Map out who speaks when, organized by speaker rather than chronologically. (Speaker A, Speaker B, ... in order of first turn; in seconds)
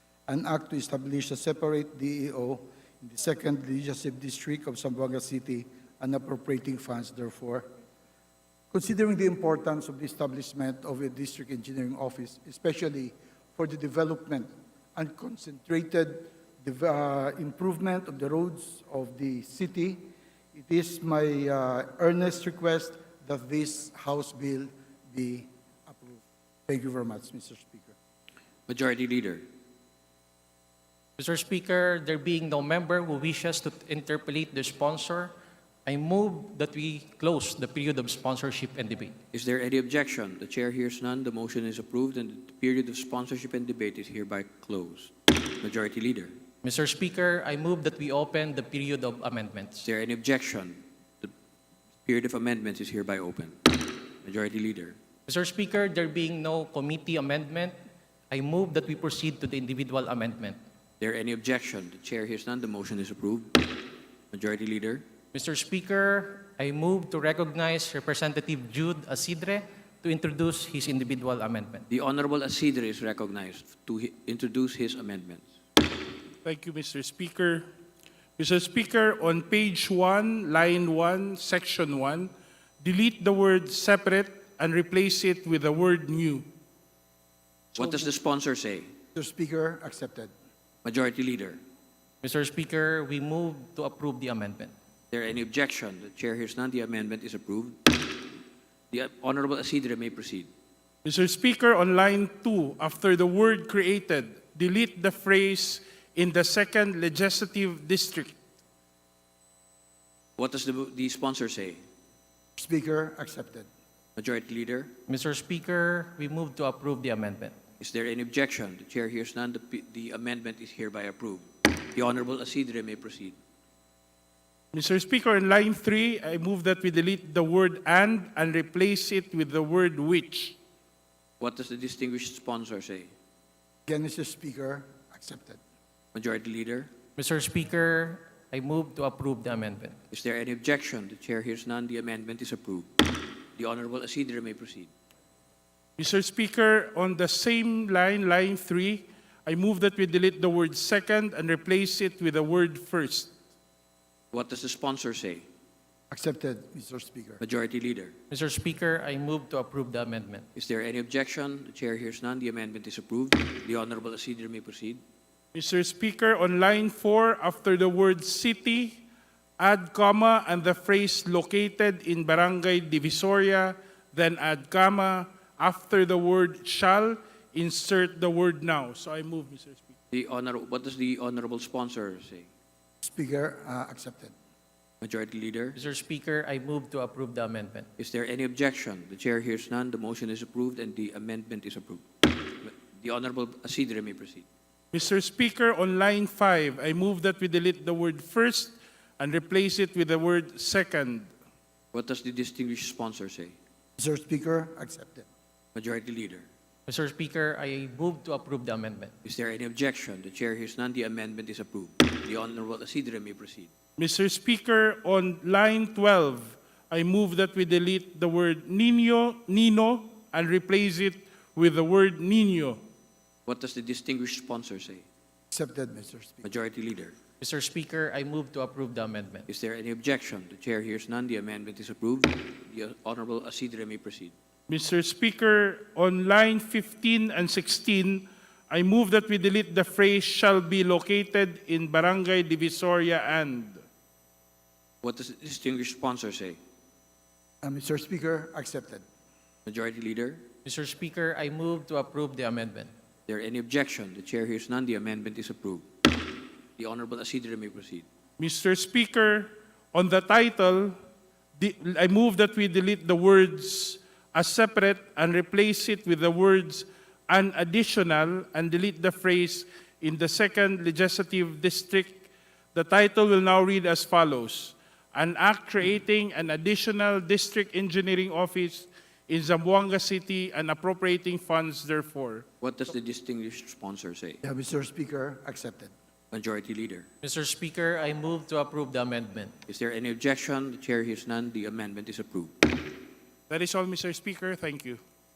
Speaker A: 0.3-7.7, 8.7-27.9, 89.1-90.3, 112.6-113.7, 133.9-135.6, 156.1-157.4, 183.0-184.3, 204.0-205.3, 225.5-226.4, 247.6-249.0, 284.4-285.9
Speaker B: 28.7-29.4, 39.3-46.3, 49.8-51.3, 52.0-55.0, 61.0-65.0, 71.9-75.5, 87.7-88.9, 90.8-91.6, 95.1-98.3, 98.9-100.5, 110.4-111.8, 114.2-114.9, 117.8-123.4, 131.4-133.1, 136.1-136.9, 140.1-144.9, 154.3-155.4, 157.4-158.1, 160.5-165.0, 180.1-182.5, 185.0-185.8, 188.0-194.4, 201.9-203.6, 205.7-206.5, 209.2-213.7, 223.4-225.1, 226.4-227.1, 229.5-234.3, 245.0-246.6, 249.7-250.4, 253.3-258.1, 282.6-284.4, 286.3-287.1, 289.7-292.8
Speaker C: 31.2-35.3, 35.8-39.1, 46.6-49.8, 55.3-57.7, 58.3-60.6, 65.3-71.8, 92.2-94.7, 115.1-117.5, 137.2-140.0, 158.3-160.4, 185.7-187.9, 206.9-209.1, 227.4-229.5, 250.6-252.9, 287.2-289.6
Speaker D: 76.4-77.6, 78.4-86.5, 101.0-108.3, 124.7-130.6, 146.0-153.3, 165.5-169.0, 169.6-179.9, 194.9-201.3, 214.0-222.8, 234.7-243.8, 258.4-260.9, 261.6-282.4, 293.5-295.0